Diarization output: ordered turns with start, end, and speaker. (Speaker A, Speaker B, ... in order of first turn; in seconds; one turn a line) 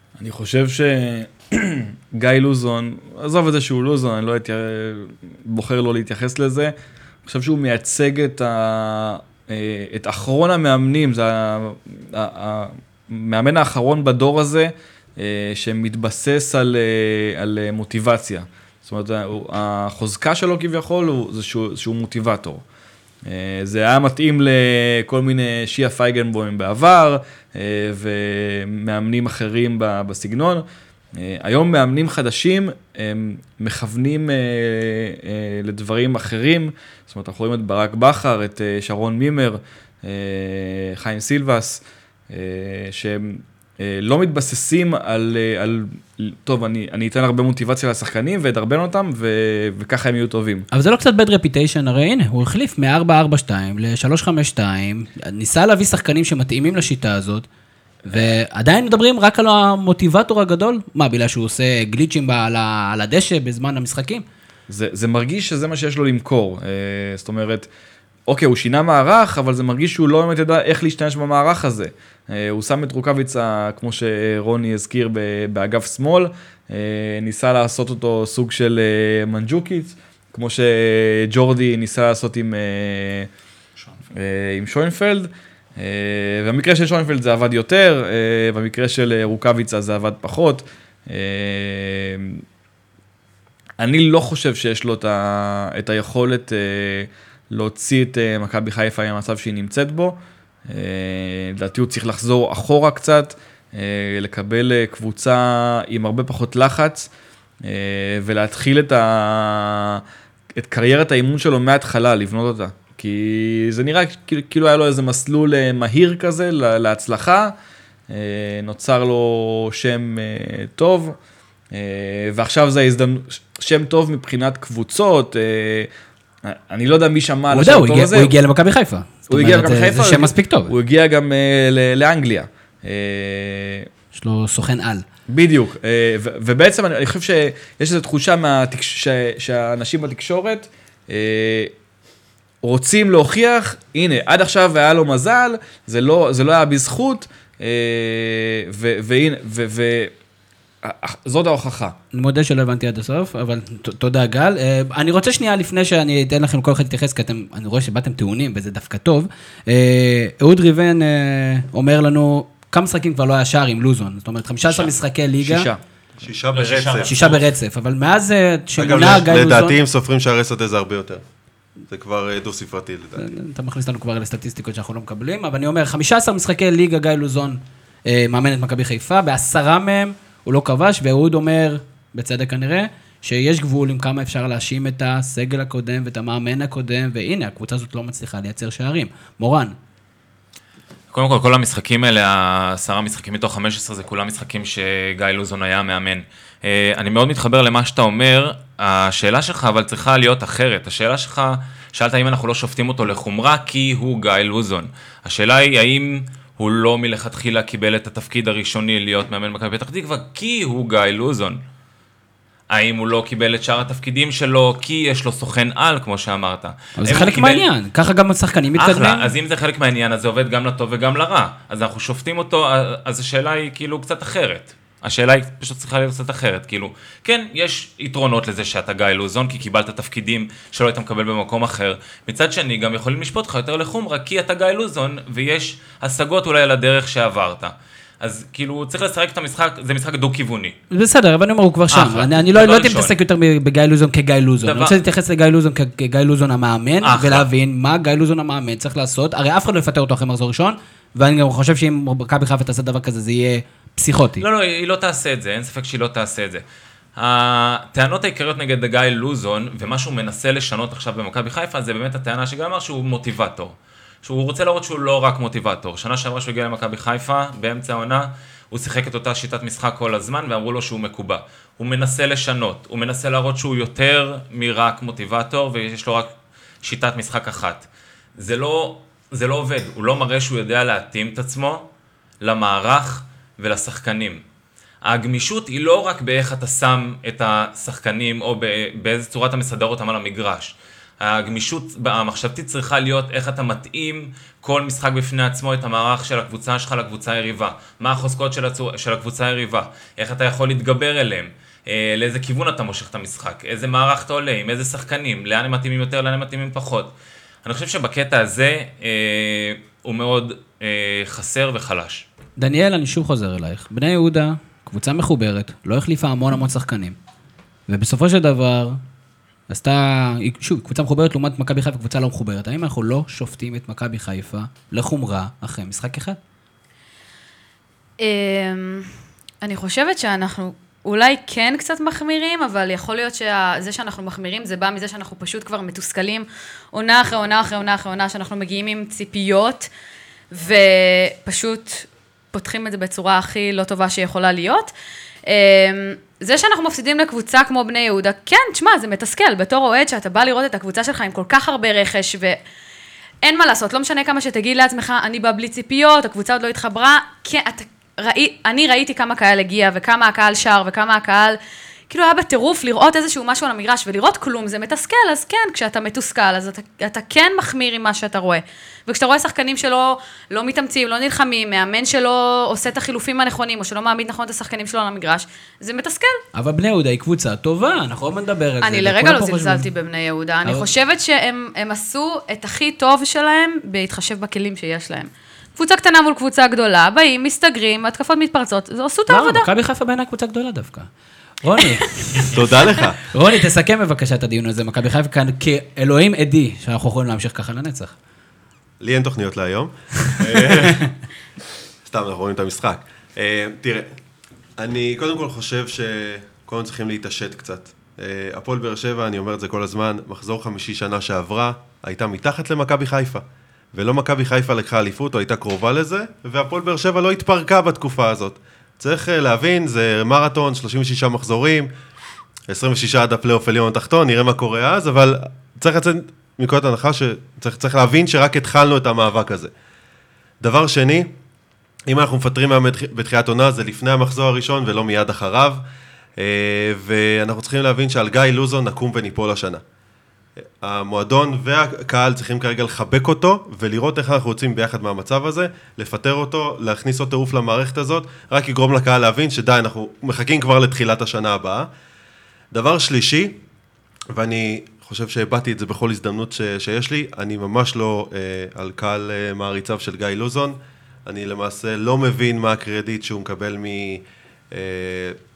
Speaker A: 0.2-6.7
Speaker A: 7.3-22.6
Speaker A: 23.3-30.6
Speaker A: 31.2-50.7
Speaker B: 50.7-57.5
Speaker B: 58.1-64.2
Speaker A: 64.7-67.7
Speaker A: 68.3-83.3
Speaker A: 84.1-92.4
Speaker A: 93.8-100.2
Speaker A: 100.7-107.1
Speaker A: 107.6-110.0
Speaker A: 110.6-117.5
Speaker A: 118.1-121.2
Speaker A: 121.7-125.9
Speaker A: 126.5-128.3
Speaker B: 127.5-130.7
Speaker A: 129.3-133.9
Speaker B: 134.1-135.1
Speaker A: 135.3-141.7
Speaker A: 142.6-150.1
Speaker A: 150.8-152.0
Speaker B: 152.1-165.7
Speaker A: 165.4-165.8
Speaker C: 166.2-167.1
Speaker D: 166.5-167.4
Speaker B: 167.1-169.8
Speaker C: 168.8-171.2
Speaker C: 171.9-173.2
Speaker B: 173.2-189.8
Speaker D: 191.1-211.6
Speaker D: 212.7-217.7
Speaker B: 217.0-219.3
Speaker D: 218.8-240.8
Speaker B: 240.9-254.4
Speaker D: 241.9-243.1
Speaker D: 244.6-244.9
Speaker D: 247.0-247.5
Speaker D: 254.4-256.6
Speaker D: 257.2-281.9
Speaker D: 282.4-284.4
Speaker D: 285.0-307.1
Speaker D: 307.6-312.2
Speaker B: 312.6-317.2
Speaker B: 317.9-319.0
Speaker B: 319.7-326.4
Speaker E: 328.2-329.1
Speaker E: 329.6-339.9
Speaker E: 340.5-344.9
Speaker E: 345.5-352.6
Speaker E: 353.4-361.6
Speaker E: 362.1-376.4
Speaker B: 376.5-379.9
Speaker E: 378.8-389.7
Speaker B: 389.3-391.1
Speaker B: 391.6-392.5
Speaker C: 392.5-393.2
Speaker B: 393.3-398.1
Speaker C: 399.0-401.0
Speaker C: 402.1-404.1
Speaker C: 404.8-421.9
Speaker C: 422.7-429.7
Speaker C: 430.6-431.3
Speaker C: 432.1-435.8
Speaker C: 436.4-439.8
Speaker C: 440.8-451.9
Speaker C: 452.7-453.6
Speaker C: 454.3-465.4